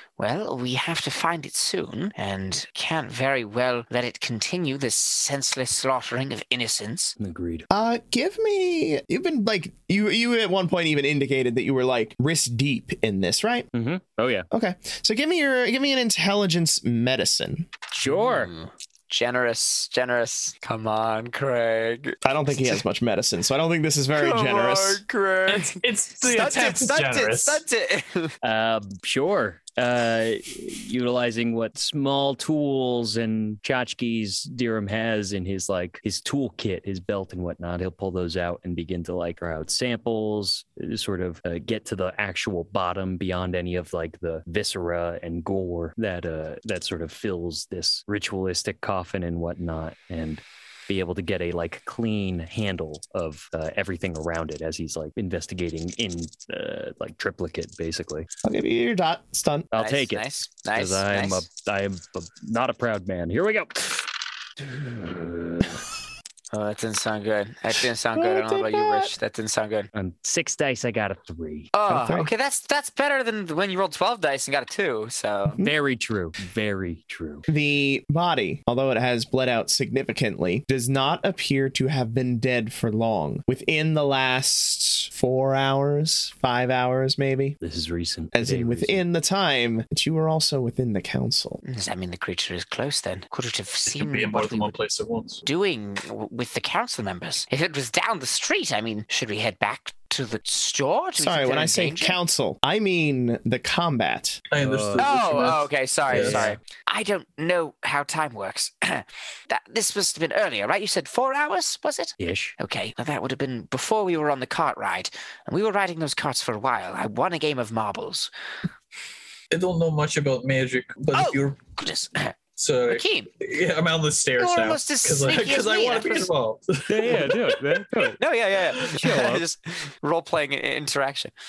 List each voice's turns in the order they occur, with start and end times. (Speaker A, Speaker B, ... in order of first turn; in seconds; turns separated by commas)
Speaker A: 0.2-7.2, Speaker B: 7.2-7.7, Speaker C: 7.7-13.7, Speaker B: 13.7-14.4, Speaker C: 14.5-17.7, Speaker B: 17.9-18.5, Speaker A: 18.0-22.2, Speaker C: 22.2-25.0, Speaker A: 24.1-28.4, Speaker D: 25.5-27.6, Speaker B: 28.4-58.3, Speaker C: 58.4-59.7, Speaker B: 59.7-64.1, Speaker A: 59.8-61.4, Speaker B: 64.6-65.8, Speaker A: 66.5-69.9, Speaker C: 68.1-69.1, Speaker B: 69.9-71.7, Speaker A: 71.7-75.6, Speaker C: 71.9-72.3, Speaker B: 75.6-77.4, Speaker C: 77.5-87.6, Speaker B: 87.6-89.0, Speaker C: 88.3-91.6, Speaker A: 91.6-94.7, Speaker D: 93.9-95.4, Speaker A: 95.4-102.2, Speaker C: 101.2-104.4, Speaker D: 104.5-106.4, Speaker B: 104.6-105.0, Speaker A: 105.0-118.3, Speaker B: 106.1-106.6, Speaker B: 112.2-112.5, Speaker D: 119.5-121.6, Speaker A: 121.1-122.4, Speaker D: 122.6-127.9, Speaker A: 122.9-123.3, Speaker A: 124.4-126.3, Speaker B: 126.9-128.2, Speaker A: 128.2-131.3, Speaker B: 128.7-129.4